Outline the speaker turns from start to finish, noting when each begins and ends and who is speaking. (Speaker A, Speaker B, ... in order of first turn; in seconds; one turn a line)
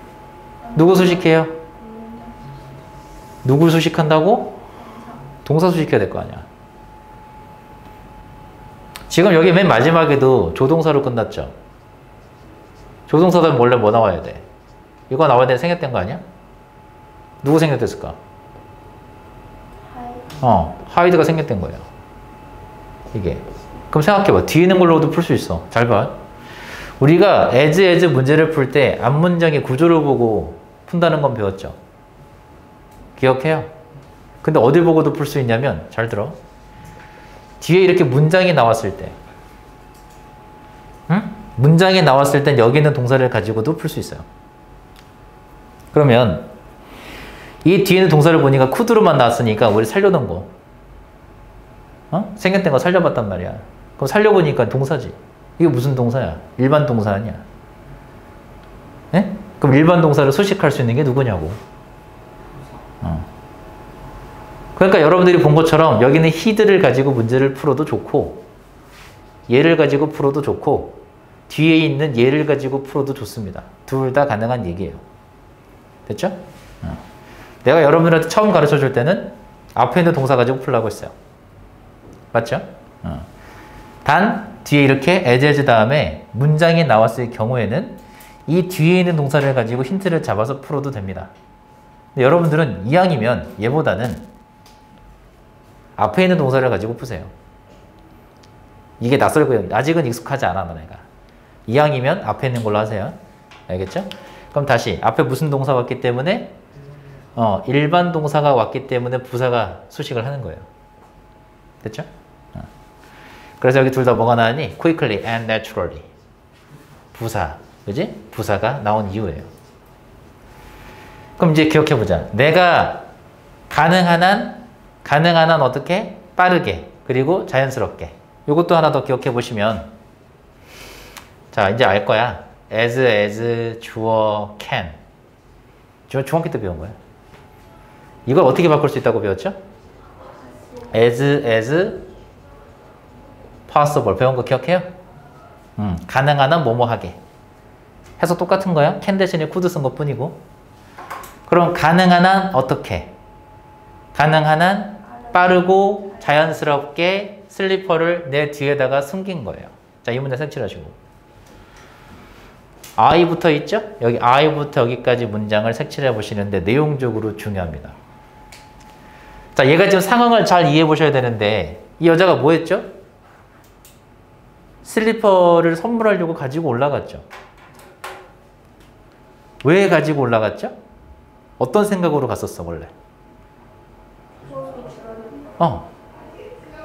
Speaker A: 0.6-2.5
Speaker B: 0.8-1.6
Speaker B: 3.4-4.6
Speaker A: 4.8-5.3
Speaker B: 5.4-6.5
Speaker B: 9.1-11.5
Speaker B: 13.1-14.5
Speaker B: 15.1-16.2
Speaker B: 17.4-18.2
Speaker A: 19.8-20.4
Speaker B: 20.4-21.9
Speaker B: 23.1-26.2
Speaker B: 27.0-31.8
Speaker B: 33.2-33.7
Speaker B: 34.4-36.4
Speaker B: 37.6-39.2
Speaker B: 41.1-44.3
Speaker B: 45.9-46.5
Speaker B: 47.6-50.5
Speaker B: 52.1-57.4
Speaker B: 59.1-61.6
Speaker B: 63.0-63.3
Speaker B: 64.8-68.4
Speaker B: 69.5-75.0
Speaker B: 76.1-77.0
Speaker B: 77.6-81.1
Speaker B: 82.3-83.3
Speaker B: 84.0-91.3
Speaker B: 92.2-94.3
Speaker B: 96.0-97.3
Speaker B: 99.0-101.0
Speaker B: 101.7-103.2
Speaker B: 103.7-106.6
Speaker B: 107.4-110.7
Speaker B: 111.8-112.7
Speaker B: 113.6-116.1
Speaker B: 117.1-119.5
Speaker B: 121.4-123.1
Speaker B: 123.7-129.9
Speaker B: 131.5-135.0
Speaker B: 136.1-137.0
Speaker B: 138.3-139.6
Speaker A: 140.6-140.9
Speaker B: 140.9-142.1
Speaker B: 143.7-144.9
Speaker B: 145.8-147.2
Speaker B: 148.2-150.4
Speaker B: 151.5-153.1
Speaker B: 154.1-161.0
Speaker A: 155.1-156.5
Speaker B: 163.0-168.0
Speaker B: 169.6-172.9
Speaker B: 174.8-177.2
Speaker B: 179.6-180.8
Speaker B: 181.6-182.9
Speaker A: 184.4-185.6
Speaker B: 185.6-185.9